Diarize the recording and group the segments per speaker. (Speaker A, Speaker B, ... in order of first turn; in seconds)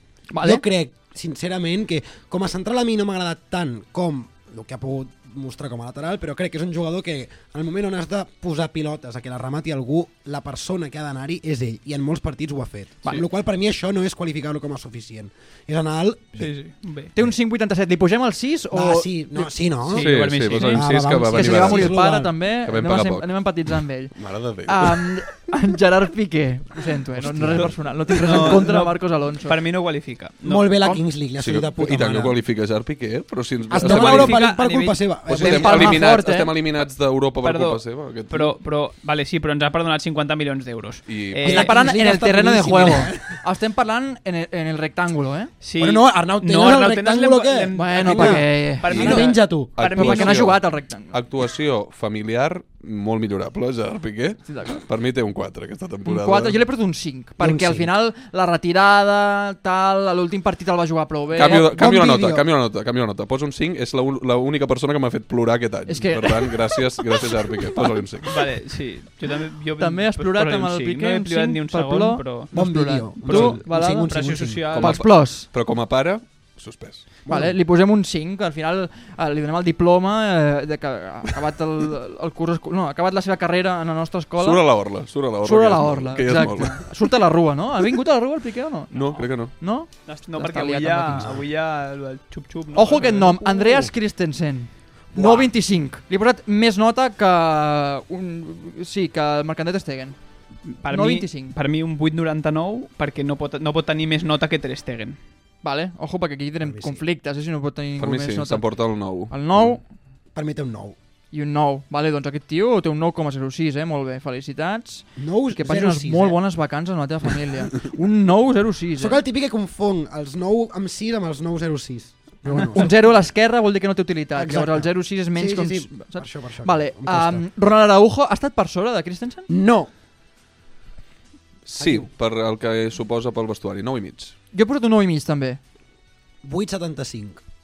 Speaker A: 0.3-0.6, 17.1-19.5, 21.3-29.5, 35.3-36.5, 41.4-45.5, 47.7-51.1, 54.4-54.8, 56.0-61.7, 65.9-66.8, 69.8-74.2, 74.7-75.5, 77.3-84.6, 85.4-91.3, 92.7-100.2, 100.9-101.5, 105.6-109.8, 111.3-119.2, 122.5-129.5, 134.5-135.6
Speaker B: 0.4-16.5, 18.7-22.4, 27.2-27.8, 30.4-32.4, 33.7-36.1, 41.4-43.4, 45.8-50.3, 57.4-57.9, 61.4-62.5, 72.5-74.7, 77.2-77.6, 91.1-91.4, 95.1-95.5, 106.6-107.0, 110.3-111.0, 115.2-116.4, 119.0-123.2, 124.3-127.5, 129.5-129.9, 131.8-132.1, 136.4-137.4
Speaker C: 16.4-17.1, 19.9-21.0, 28.2-30.7, 33.8-35.0, 37.4-41.7, 45.6-50.4, 68.3-72.5, 73.2-75.0, 89.0-89.2, 90.0-93.9, 100.6-105.2
Speaker D: 19.9-23.4, 24.1-25.2, 31.4-34.5, 35.3-38.5, 41.1-41.5, 49.0-49.2, 49.7-56.6, 61.3-68.3, 74.7-77.0, 84.4-86.9, 88.9-89.5, 108.0-109.8, 131.7-134.3